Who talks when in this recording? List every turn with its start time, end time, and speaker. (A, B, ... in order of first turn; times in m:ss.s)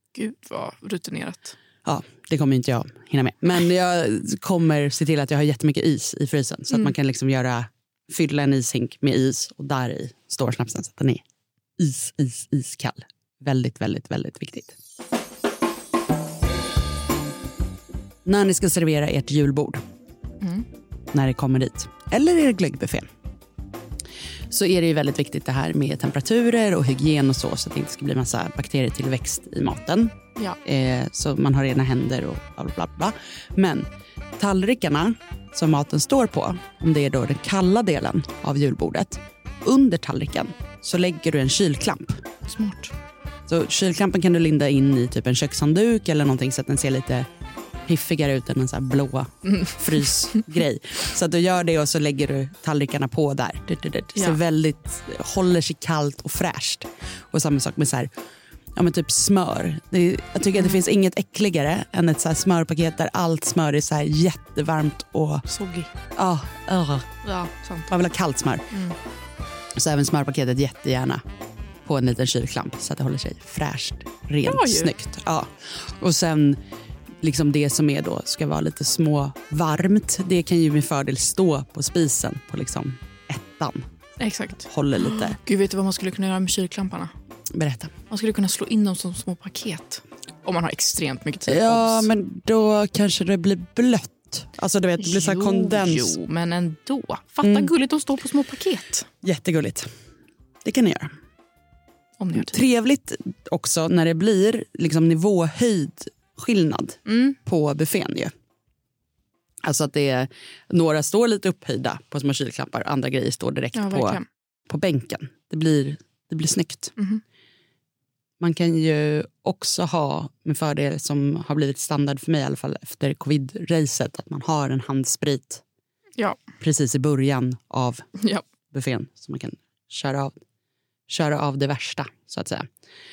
0:00.2-0:01.6 A
0:01.8-0:11.2 B
0:11.8-0:14.8 B
0:18.2-0:19.8 B
0:20.4-0:20.7 A
0:21.1-0:23.1 B
0:24.5-0:33.9 B
0:34.4-0:42.2 B
0:42.4-0:42.9 A
0:43.5-0:47.3 B
0:47.9-0:58.1 B
0:49.5-0:49.8 A
0:58.8-1:05.5 B
1:05.5-1:05.9 A
1:06.2-1:07.1 B
1:07.2-1:07.9 A
1:07.9-1:08.7 B
1:09.8-1:11.2 B
1:11.8-1:16.6 B
1:14.4-1:15.0 A
1:17.2-1:23.9 B
1:24.2-1:27.1 A
1:24.7-1:25.4 B
1:27.5-1:27.9 B
1:28.1-1:32.1 A
1:31.5-1:36.2 B
1:35.0-1:39.1 A
1:37.4-1:37.7 B
1:39.2-1:39.9 B
1:40.6-1:41.1 B
1:42.2-1:42.6 A
1:42.3-1:48.3 B
1:47.1-1:47.4 A
1:49.6-1:56.9 B
1:53.7-1:54.2 A
1:57.0-1:57.2 A
1:58.4-2:05.6 B
2:06.6-2:08.1 B
2:08.2-2:08.4 A
2:08.7-2:10.4 B
2:11.1-2:12.7 B